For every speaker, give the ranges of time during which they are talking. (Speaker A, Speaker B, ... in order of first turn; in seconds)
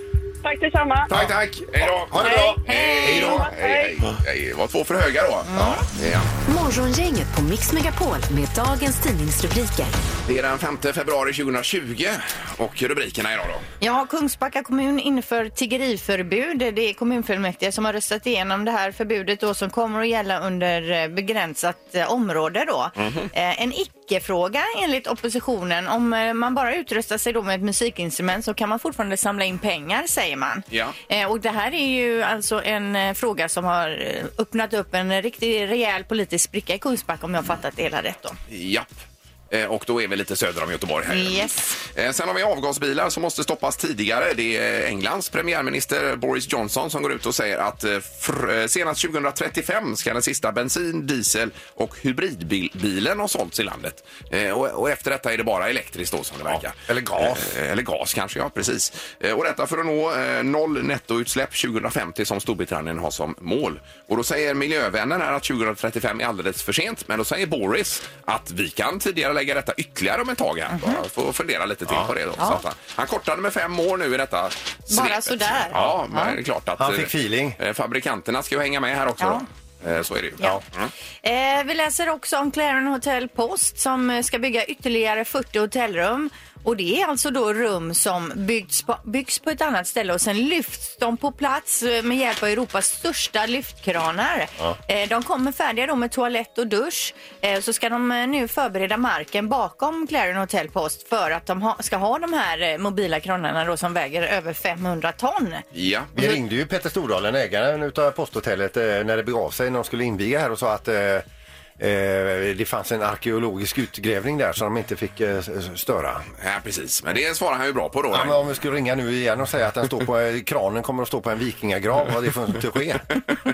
Speaker A: 0.4-1.1, 2.2-4.0
Speaker B: 1.1-6.3, 10.2-13.7, 23.0-23.3, 30.7-31.0, 38.5-38.9, 39.5-80.9, 105.7-106.1, 116.4-118.4
Speaker C: 2.1-3.4, 5.5-5.8, 56.5-57.5, 71.9-72.1, 76.8-77.6, 106.1-111.2, 111.8-116.2, 118.1-123.2
Speaker D: 5.5-5.8, 13.8-38.4, 41.1-41.8, 70.7-71.0, 74.9-76.4, 79.2-79.4, 81.2-105.6
Speaker E: 6.5-9.9